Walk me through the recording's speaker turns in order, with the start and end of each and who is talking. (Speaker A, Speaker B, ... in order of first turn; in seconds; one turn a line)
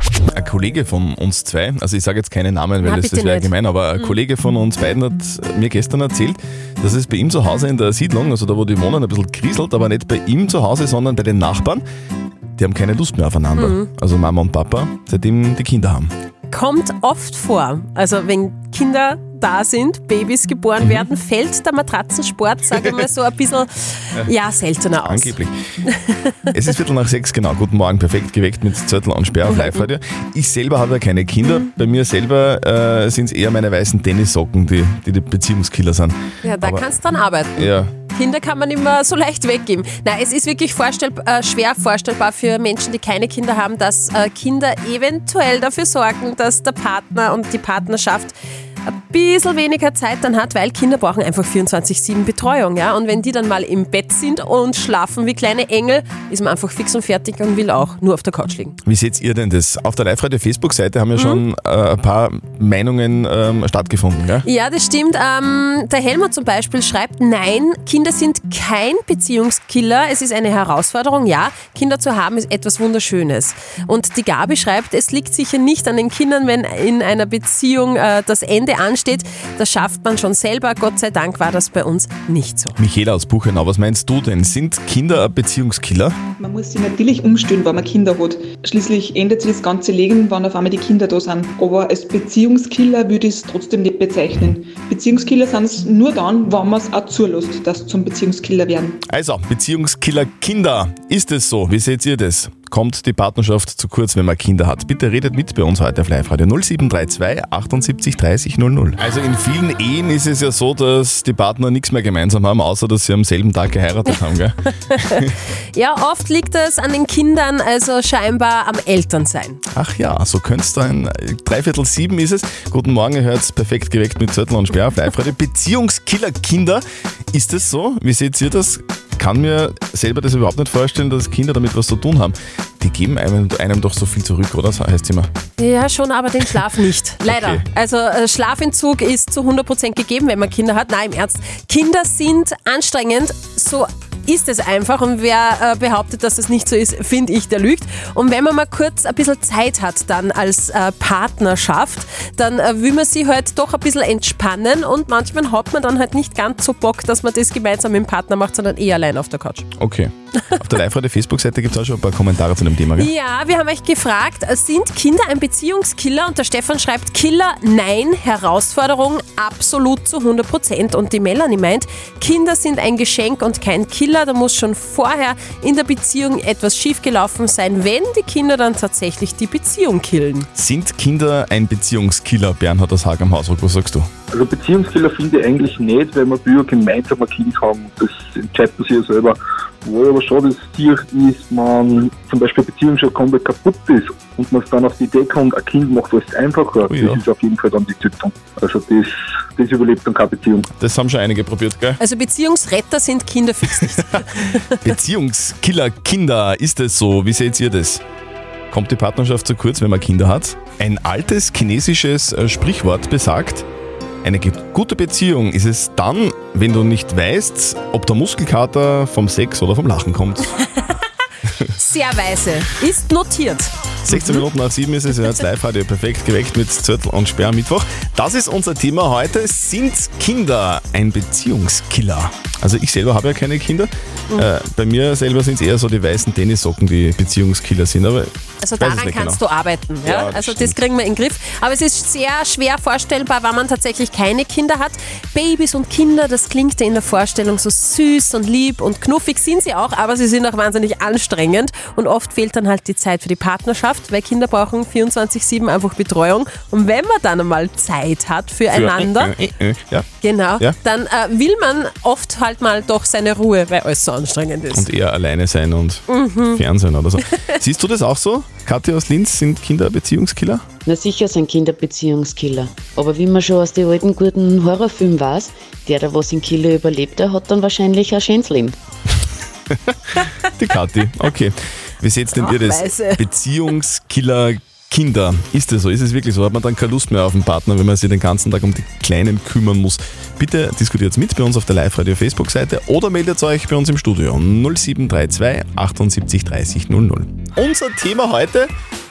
Speaker A: 0.3-11.8
Speaker B: 2.8-4.1
Speaker A: 12.6-16.1
Speaker B: 13.6-13.9
Speaker B: 16.5-25.4
Speaker A: 20.8-21.1
Speaker A: 25.0-25.5
Speaker A: 26.5-36.9
Speaker B: 29.5-29.9
Speaker B: 36.4-58.8
Speaker A: 37.6-37.9
Speaker A: 58.9-64.5
Speaker B: 61.2-61.4
Speaker B: 64.5-82.8
Speaker A: 82.8-86.2
Speaker C: 86.4-99.0
Speaker A: 99.1-115.3
Speaker B: 114.8-115.2
Speaker B: 115.7-119.6
Speaker A: 119.7-135.3
Speaker B: 135.6-159.7
Speaker A: 137.3-137.6
Speaker A: 159.8-163.1
Speaker B: 163.0-180.5
Speaker A: 180.6-184.1
Speaker D: 184.3-200.7
Speaker A: 196.9-197.2
Speaker A: 200.7-202.0
Speaker B: 202.0-204.7
Speaker A: 204.8-208.0
Speaker A: 208.7-213.7
Speaker A: 214.2-220.6
Speaker B: 221.8-224.4
Speaker A: 224.1-239.4
Speaker B: 238.6-259.3
Speaker A: 240.0-240.8
Speaker A: 258.7-260.1
Speaker B: 260.2-264.9
Speaker A: 264.7-270.7
Speaker B: 266.1-266.6
Speaker E: 270.9-278.8
Speaker A: 280.6-298.7
Speaker B: 282.4-283.2